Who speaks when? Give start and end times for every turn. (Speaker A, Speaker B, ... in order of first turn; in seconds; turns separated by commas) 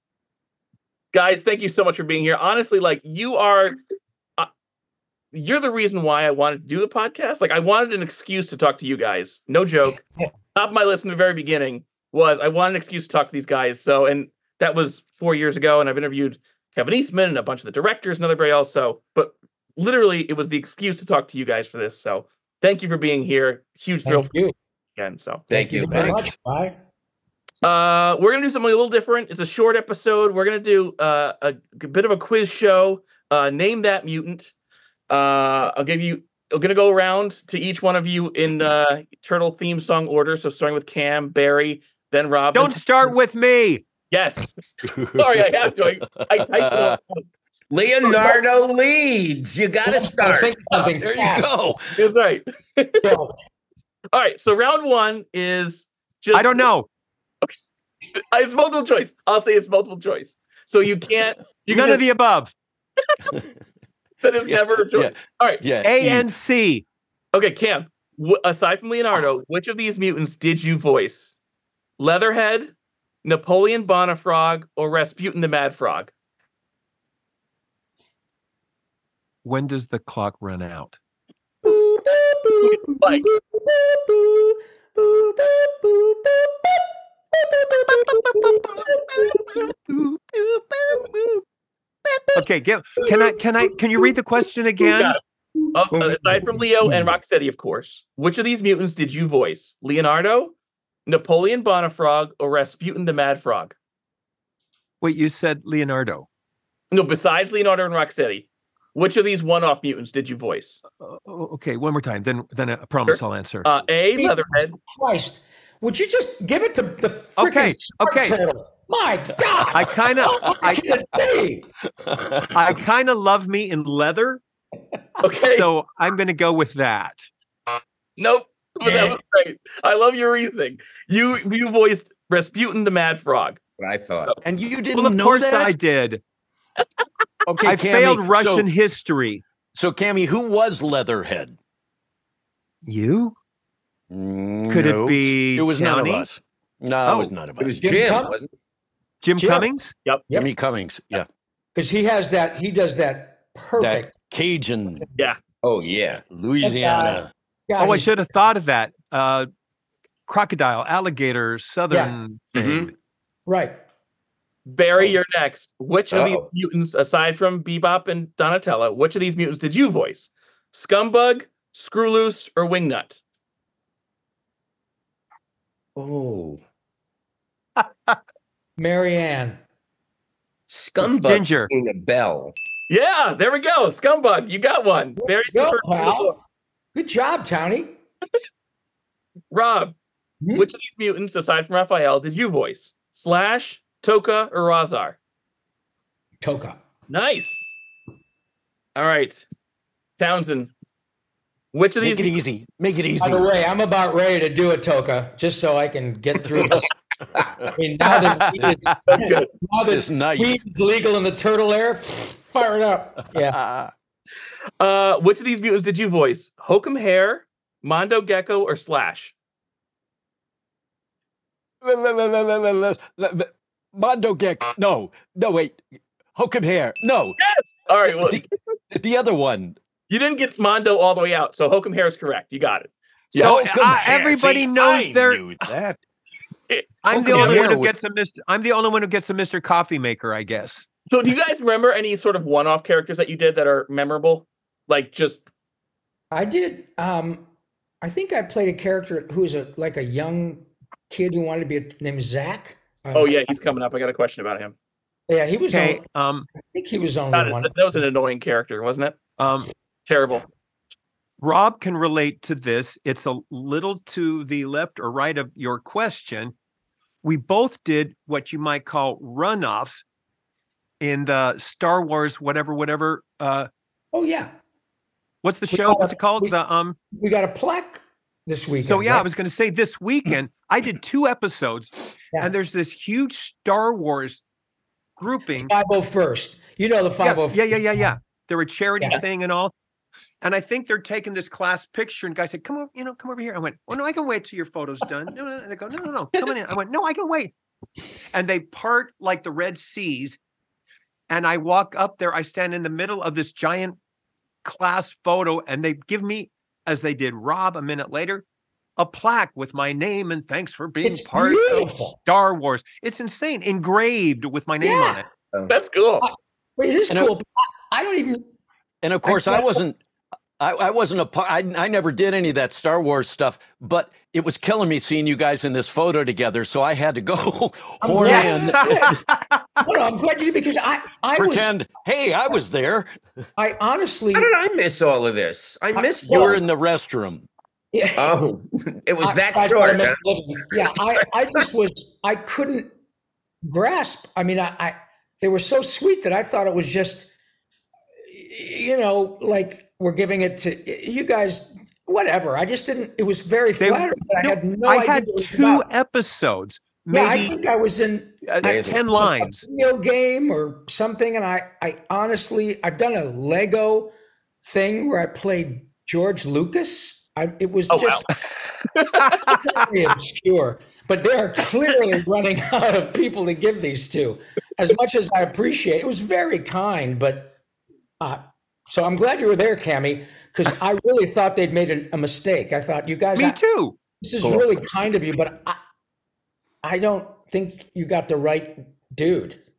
Speaker A: 1.1-3.8, Speaker A: 5.3-10.0, Speaker A: 10.5-24.3, Speaker B: 24.1-24.5, Speaker A: 25.0-25.4, Speaker C: 25.5-26.2, Speaker B: 25.5-26.8, Speaker D: 25.8-26.4, Speaker A: 27.6-34.5, Speaker A: 35.1-42.8, Speaker E: 42.5-43.9, Speaker A: 44.1-44.5, Speaker D: 44.8-47.0, Speaker A: 45.1-47.2, Speaker C: 47.7-50.6, Speaker B: 49.9-51.5, Speaker D: 51.0-51.9, Speaker A: 52.0-53.2, Speaker B: 53.0-53.4, Speaker A: 54.1-56.7, Speaker E: 56.3-56.9, Speaker A: 58.1-62.0, Speaker E: 61.6-62.5, Speaker A: 64.2-65.6, Speaker D: 64.4-66.3, Speaker E: 65.8-66.8, Speaker A: 67.3-71.3, Speaker A: 72.0-76.1, Speaker E: 79.5-81.0, Speaker B: 81.6-89.7, Speaker A: 82.6-83.3, Speaker D: 88.2-89.3, Speaker D: 90.1-91.4, Speaker E: 92.3-95.2, Speaker B: 93.0-93.4, Speaker A: 94.9-95.2, Speaker B: 95.5-97.1, Speaker A: 95.7-100.5, Speaker A: 101.1-103.8, Speaker E: 105.0-106.3, Speaker A: 106.9-110.8, Speaker E: 111.0-113.7, Speaker A: 113.1-114.8, Speaker B: 114.2-121.7, Speaker E: 117.4-118.4, Speaker E: 119.7-120.8, Speaker D: 122.0-122.8, Speaker E: 122.5-124.4, Speaker A: 125.2-125.7, Speaker E: 125.4-127.3, Speaker A: 128.2-133.6, Speaker B: 128.8-129.2, Speaker C: 133.8-134.3, Speaker D: 134.4-135.7, Speaker E: 134.9-136.2, Speaker D: 137.5-138.7, Speaker E: 137.7-139.4, Speaker D: 139.7-141.6, Speaker E: 142.9-143.4, Speaker D: 144.1-147.8, Speaker E: 144.7-146.3, Speaker E: 147.1-147.3, Speaker C: 147.6-148.5, Speaker B: 147.8-148.4, Speaker E: 149.2-149.9, Speaker B: 149.4-149.7, Speaker D: 150.3-151.3, Speaker B: 151.8-154.2, Speaker D: 153.8-155.1, Speaker C: 155.6-156.2, Speaker D: 156.3-157.3, Speaker B: 156.6-158.1, Speaker E: 157.8-159.5, Speaker E: 160.3-162.9, Speaker B: 161.9-162.2, Speaker C: 162.6-162.9, Speaker B: 163.5-163.8, Speaker A: 164.7-173.2, Speaker C: 166.1-166.5, Speaker C: 176.0-176.6, Speaker E: 177.8-178.2, Speaker B: 178.8-179.6, Speaker C: 180.7-182.6, Speaker E: 181.0-181.7, Speaker A: 182.9-186.3, Speaker B: 185.2-186.4, Speaker B: 186.9-187.9, Speaker A: 189.5-189.9, Speaker B: 190.4-190.7, Speaker A: 190.5-195.2, Speaker B: 196.4-196.8, Speaker A: 197.1-197.8, Speaker A: 199.0-199.4, Speaker A: 200.2-200.7, Speaker A: 201.7-202.4, Speaker D: 202.0-203.5, Speaker B: 203.2-206.9, Speaker D: 206.6-206.8, Speaker B: 207.7-213.6, Speaker E: 208.1-209.0, Speaker A: 209.1-209.5, Speaker D: 209.9-210.6, Speaker D: 213.4-213.9, Speaker A: 214.8-219.3, Speaker D: 221.8-225.8, Speaker D: 226.4-227.4, Speaker A: 227.4-228.4, Speaker D: 228.1-229.8, Speaker A: 230.1-234.0, Speaker D: 233.3-236.0, Speaker E: 233.4-235.7, Speaker A: 236.7-237.6, Speaker E: 237.0-240.9, Speaker D: 237.1-237.9, Speaker A: 241.1-245.4, Speaker B: 246.3-247.5, Speaker B: 248.0-253.5, Speaker A: 253.1-254.8, Speaker B: 255.3-256.1, Speaker E: 255.7-256.5, Speaker B: 256.6-258.0, Speaker A: 257.3-259.2, Speaker E: 259.4-259.7, Speaker A: 260.1-260.5, Speaker E: 261.4-266.5, Speaker E: 267.2-270.0, Speaker E: 271.0-273.7, Speaker B: 274.1-274.5, Speaker E: 275.4-277.0, Speaker B: 275.7-276.5, Speaker B: 277.1-279.3, Speaker E: 278.8-284.4, Speaker E: 285.2-285.7, Speaker B: 285.6-288.2, Speaker E: 287.2-289.7, Speaker E: 290.4-297.5, Speaker E: 298.3-300.4, Speaker E: 301.3-304.0, Speaker E: 304.6-308.4, Speaker E: 309.0-315.3, Speaker B: 311.0-312.2, Speaker B: 314.8-315.2, Speaker A: 315.7-316.3, Speaker B: 316.2-318.5, Speaker D: 319.0-320.0, Speaker B: 319.3-319.8, Speaker D: 320.6-329.2, Speaker B: 328.0-329.2, Speaker E: 328.2-329.7, Speaker B: 329.8-331.7, Speaker D: 331.4-333.1, Speaker B: 333.6-334.5, Speaker C: 334.3-336.6, Speaker B: 336.0-336.6, Speaker D: 336.3-337.5, Speaker B: 337.9-338.3, Speaker C: 338.2-340.2, Speaker B: 339.2-342.9, Speaker B: 343.6-347.3, Speaker B: 348.3-355.9, Speaker E: 353.8-357.6, Speaker B: 357.1-368.3, Speaker E: 358.4-359.6, Speaker C: 358.6-359.0, Speaker A: 367.9-368.3, Speaker A: 369.0-369.5, Speaker B: 369.3-377.6, Speaker B: 378.2-383.6, Speaker E: 383.4-384.0, Speaker B: 384.2-385.8, Speaker C: 384.4-384.7, Speaker B: 386.8-389.6